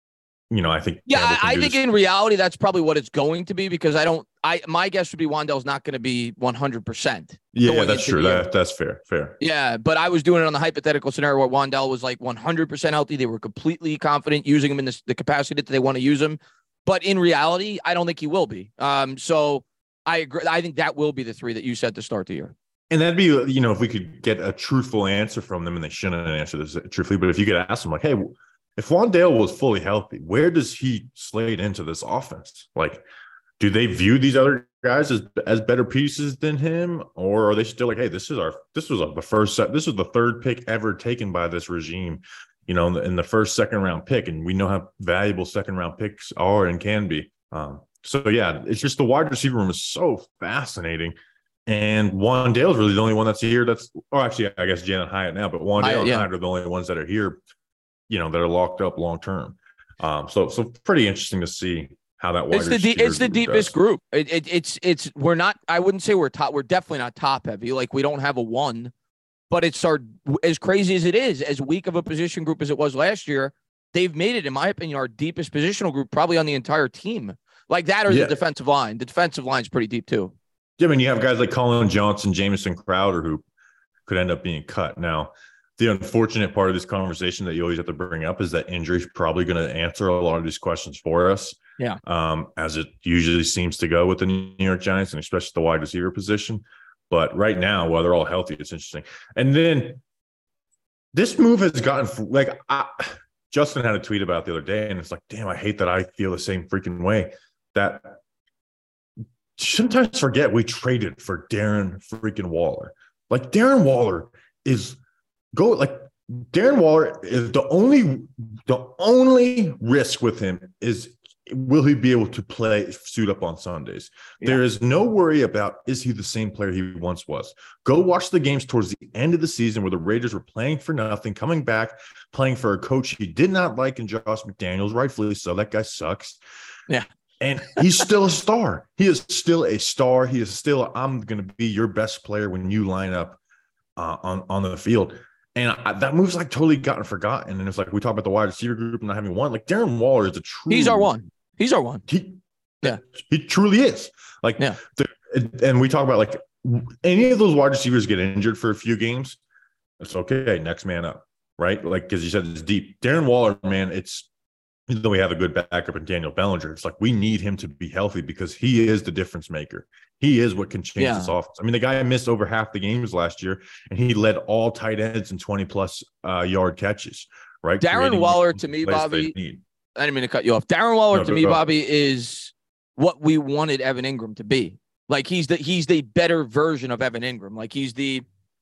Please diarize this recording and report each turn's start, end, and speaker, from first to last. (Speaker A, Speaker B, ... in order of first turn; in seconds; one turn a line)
Speaker A: 0.5-1.8
Speaker B: 1.1-8.4
Speaker A: 7.5-9.4
Speaker B: 9.4-22.5
Speaker A: 22.9-33.0
Speaker A: 33.6-51.1
Speaker A: 51.7-57.4
Speaker B: 55.8-56.3
Speaker A: 58.1-63.7
Speaker B: 62.5-68.9
Speaker B: 69.5-80.3
Speaker A: 78.1-78.4
Speaker A: 80.8-83.4
Speaker A: 84.0-100.0
Speaker A: 101.1-108.2
Speaker A: 109.6-115.0
Speaker A: 115.5-136.4
Speaker A: 137.4-143.4
Speaker A: 144.0-151.1
Speaker B: 150.7-152.0
Speaker A: 152.1-159.4
Speaker A: 160.0-164.3
Speaker A: 164.9-179.6
Speaker B: 171.0-171.3
Speaker B: 177.8-179.3
Speaker B: 180.0-188.2
Speaker A: 181.1-181.6